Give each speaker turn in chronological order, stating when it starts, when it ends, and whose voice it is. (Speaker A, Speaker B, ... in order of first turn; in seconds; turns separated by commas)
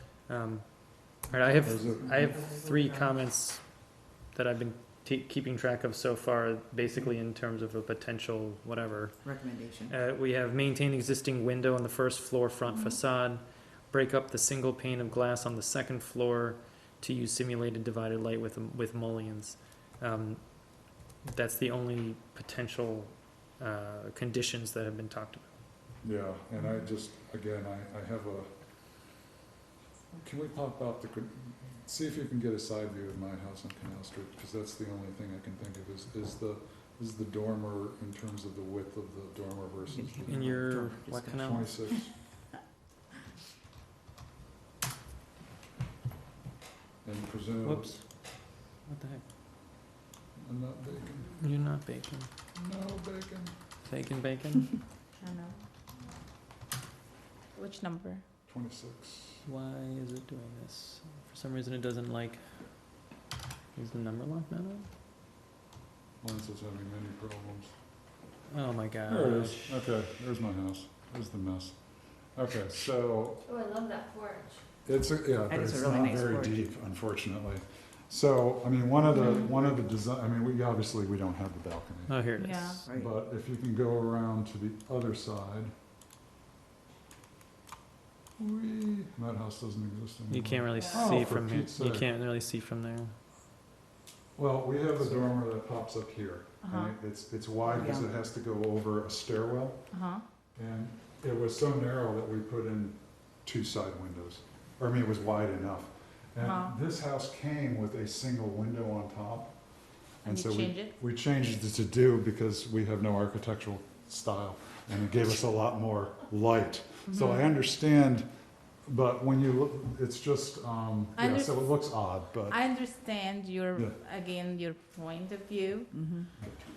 Speaker A: 0.3-25.6, Speaker B: 1.3-3.2, Speaker C: 1.6-2.2, Speaker B: 9.2-10.0, Speaker C: 26.0-28.5, Speaker C: 30.2-40.7, Speaker B: 39.9-41.6, Speaker A: 40.3-41.7, Speaker C: 41.4-42.2, Speaker C: 47.0-48.0, Speaker A: 47.6-49.2, Speaker C: 50.4-51.4, Speaker A: 51.3-52.3, Speaker C: 52.5-53.6, Speaker A: 53.9-54.8, Speaker D: 55.2-55.7, Speaker D: 57.5-58.3, Speaker C: 58.4-59.4, Speaker A: 59.5-62.7, Speaker A: 63.8-64.9, Speaker C: 66.2-67.8, Speaker A: 68.5-69.8, Speaker C: 69.1-73.4, Speaker D: 73.4-74.6, Speaker C: 74.8-85.7, Speaker B: 75.5-76.6, Speaker A: 82.1-82.8, Speaker D: 82.4-82.8, Speaker B: 82.8-83.1, Speaker C: 88.4-92.1, Speaker A: 90.3-93.2, Speaker C: 94.3-118.3, Speaker D: 96.6-97.0, Speaker B: 97.7-98.1, Speaker D: 99.9-100.3, Speaker D: 106.4-106.8, Speaker D: 110.2-111.0, Speaker D: 117.1-117.5, Speaker C: 118.8-122.6, Speaker D: 121.2-121.6, Speaker D: 122.5-125.9, Speaker C: 123.7-124.0, Speaker B: 125.9-126.3